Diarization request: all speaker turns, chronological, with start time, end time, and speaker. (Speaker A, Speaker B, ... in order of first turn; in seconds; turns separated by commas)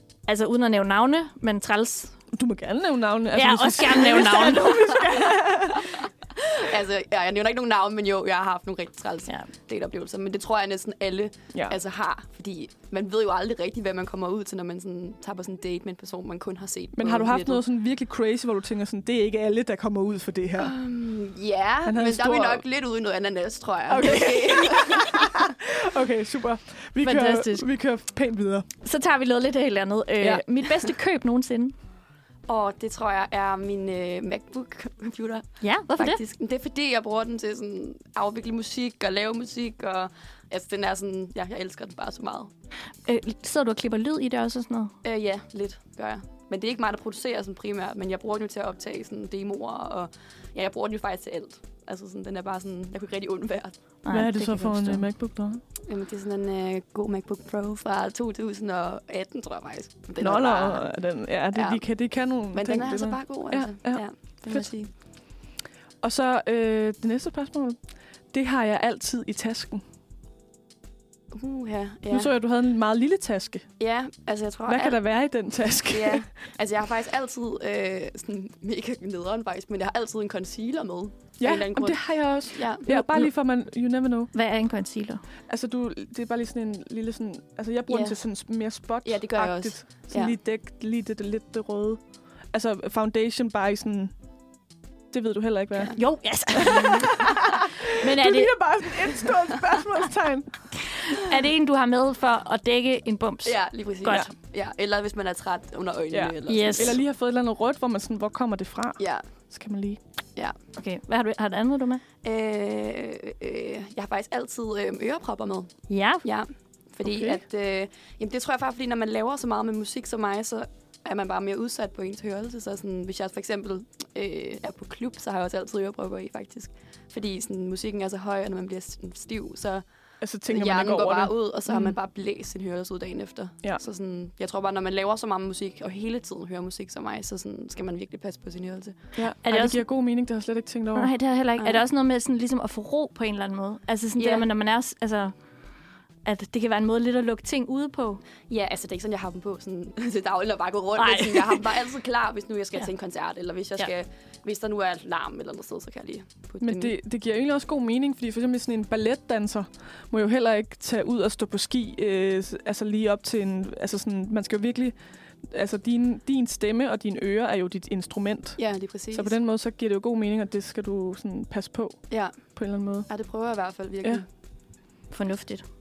Speaker A: 0.3-2.1, Speaker B: 2.3-5.9, Speaker A: 3.3-4.9, Speaker C: 5.9-17.6, Speaker B: 11.5-11.8, Speaker B: 16.9-20.7, Speaker C: 20.6-25.3, Speaker B: 21.8-22.6, Speaker B: 23.9-28.7, Speaker A: 27.0-27.6, Speaker A: 28.8-31.7, Speaker C: 32.5-42.5, Speaker A: 35.6-36.2, Speaker A: 43.0-44.9, Speaker C: 45.0-53.7, Speaker A: 54.0-55.1, Speaker B: 54.1-55.6, Speaker C: 55.9-60.9, Speaker B: 60.2-64.7, Speaker C: 61.5-61.9, Speaker C: 62.5-64.9, Speaker B: 66.0-67.8, Speaker B: 68.3-69.8, Speaker C: 71.3-72.3, Speaker B: 72.1-73.7, Speaker C: 73.8-75.0, Speaker B: 74.7-76.3, Speaker C: 75.9-83.2, Speaker B: 81.4-84.3, Speaker A: 84.3-85.2, Speaker B: 85.5-92.0, Speaker C: 87.9-88.2, Speaker C: 89.0-90.3, Speaker B: 92.5-94.1, Speaker B: 95.1-100.6, Speaker A: 95.9-97.4, Speaker C: 96.7-97.0, Speaker A: 98.0-98.6, Speaker A: 100.9-104.3, Speaker C: 103.4-107.0, Speaker B: 106.1-110.0, Speaker A: 106.5-107.0, Speaker C: 109.0-109.3, Speaker A: 110.8-112.0, Speaker C: 112.2-115.7, Speaker A: 115.9-116.2, Speaker C: 116.2-129.8, Speaker B: 117.0-117.4, Speaker B: 130.2-131.9, Speaker C: 130.5-139.0, Speaker B: 139.2-141.1, Speaker A: 139.4-139.8, Speaker A: 140.9-145.3, Speaker C: 141.6-141.8, Speaker C: 144.2-144.4, Speaker A: 146.2-148.2, Speaker C: 148.4-156.9, Speaker A: 151.0-151.7, Speaker B: 156.6-164.9, Speaker B: 165.5-168.6, Speaker C: 168.6-169.3, Speaker B: 169.1-173.1, Speaker C: 172.1-172.4, Speaker C: 173.1-174.2, Speaker A: 175.1-175.6